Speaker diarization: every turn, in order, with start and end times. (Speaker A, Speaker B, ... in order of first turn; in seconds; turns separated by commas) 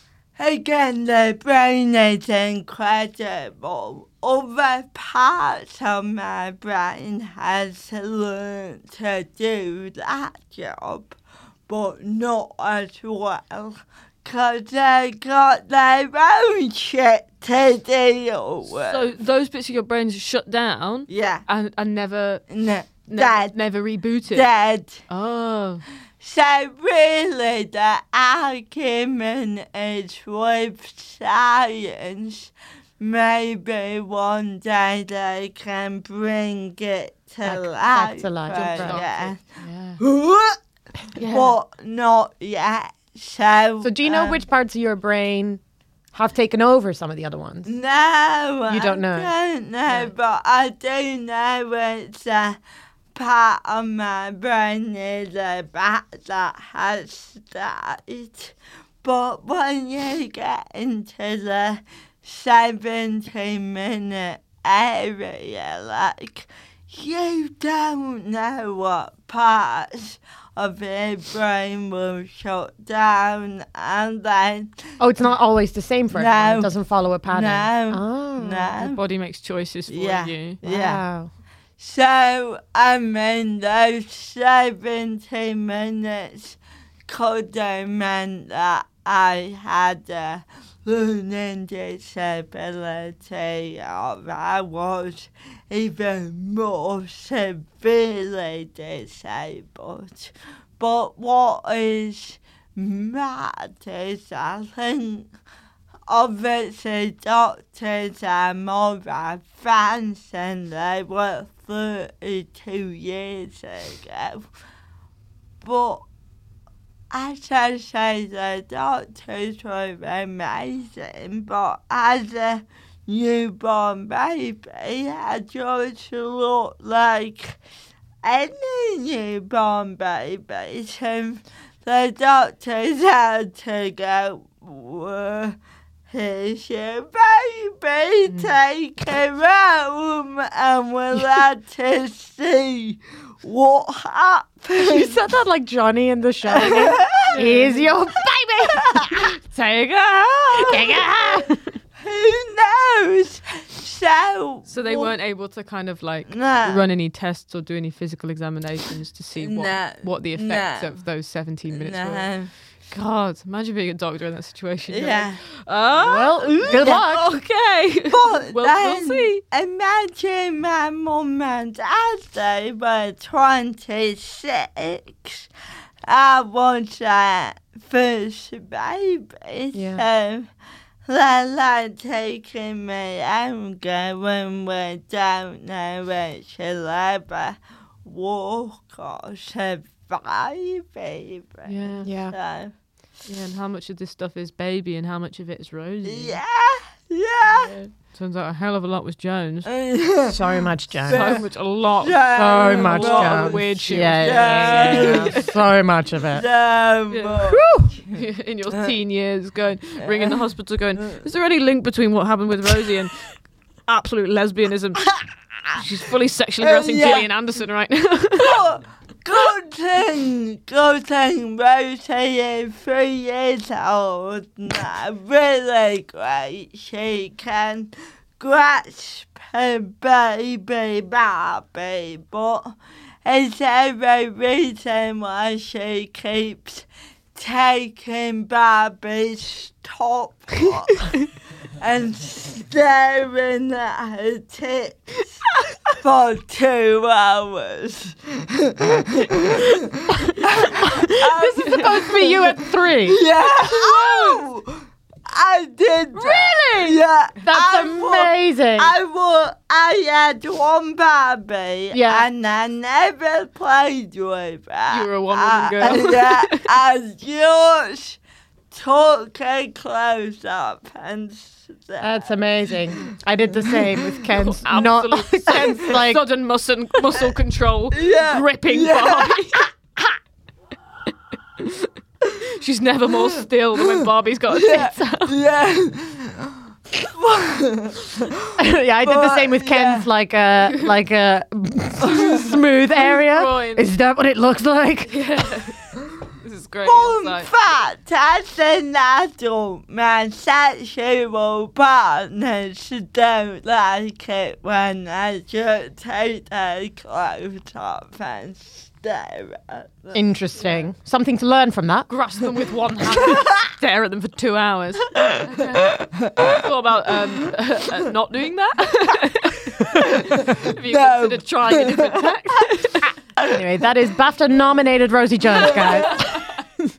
Speaker A: 0.4-11.2, Speaker A: 11.7-19.1, Speaker B: 18.8-22.5, Speaker A: 21.1-21.4, Speaker A: 22.5-23.6, Speaker B: 23.1-24.5, Speaker A: 24.3-25.0, Speaker B: 25.1-25.8, Speaker A: 26.2-39.4, Speaker C: 37.4-39.0, Speaker B: 38.5-40.0, Speaker A: 40.0-40.6, Speaker B: 41.1-41.6, Speaker A: 41.2-44.4, Speaker C: 43.8-45.6, Speaker C: 46.1-47.7, Speaker A: 47.6-52.6, Speaker C: 48.7-49.3, Speaker A: 53.1-74.7, Speaker C: 75.0-78.8, Speaker A: 76.1-76.7, Speaker A: 77.3-79.0, Speaker B: 78.8-80.6, Speaker A: 79.9-81.0, Speaker C: 80.6-81.3, Speaker A: 81.8-105.3, Speaker A: 106.1-114.5, Speaker A: 115.6-116.0, Speaker A: 117.1-127.6, Speaker A: 128.2-135.6, Speaker A: 136.1-145.2, Speaker B: 138.3-138.5, Speaker C: 144.8-149.3, Speaker A: 146.5-147.4, Speaker B: 147.3-147.9, Speaker A: 148.8-149.1, Speaker B: 149.5-150.7, Speaker C: 150.7-151.6, Speaker A: 150.7-151.2, Speaker A: 152.0-155.1, Speaker B: 154.7-162.3, Speaker A: 156.3-156.8, Speaker A: 159.4-161.0, Speaker A: 161.7-162.5, Speaker B: 162.9-169.4, Speaker A: 164.9-165.4, Speaker C: 166.0-167.2, Speaker A: 166.5-167.4, Speaker A: 168.1-175.5, Speaker A: 176.1-180.5, Speaker C: 179.7-180.1, Speaker A: 181.1-192.7, Speaker B: 191.7-192.1, Speaker C: 192.1-192.4, Speaker B: 193.2-196.4, Speaker A: 196.1-197.8, Speaker B: 197.5-199.7, Speaker A: 199.7-200.4, Speaker C: 200.3-201.4, Speaker A: 201.1-205.5, Speaker B: 201.1-205.4, Speaker C: 202.3-206.4, Speaker A: 206.3-208.2, Speaker B: 207.1-207.4, Speaker C: 207.5-207.9, Speaker B: 208.1-213.3, Speaker A: 210.0-210.5, Speaker A: 211.0-211.2, Speaker B: 213.9-215.1, Speaker A: 215.0-215.8, Speaker B: 215.8-218.6, Speaker A: 216.6-217.3, Speaker A: 218.4-241.2, Speaker A: 241.8-245.3, Speaker A: 245.9-268.2, Speaker C: 250.7-254.4, Speaker C: 256.1-258.9, Speaker C: 261.9-262.3, Speaker B: 264.9-266.7, Speaker A: 268.7-272.3, Speaker C: 272.0-276.2, Speaker A: 273.7-274.0, Speaker B: 274.3-279.7, Speaker A: 275.5-275.9, Speaker A: 277.9-279.7, Speaker B: 281.6-281.9, Speaker B: 282.6-285.4, Speaker A: 283.8-290.1, Speaker C: 288.6-295.2, Speaker A: 292.0-292.4, Speaker B: 293.3-293.9, Speaker B: 295.1-295.8, Speaker B: 296.4-297.5, Speaker A: 296.8-310.2, Speaker C: 310.1-312.1, Speaker B: 312.1-315.9, Speaker A: 313.1-313.7, Speaker A: 315.2-316.6, Speaker B: 316.6-323.1, Speaker A: 320.1-322.6, Speaker A: 323.4-323.6, Speaker C: 323.5-326.3, Speaker B: 325.6-326.6, Speaker A: 325.6-326.1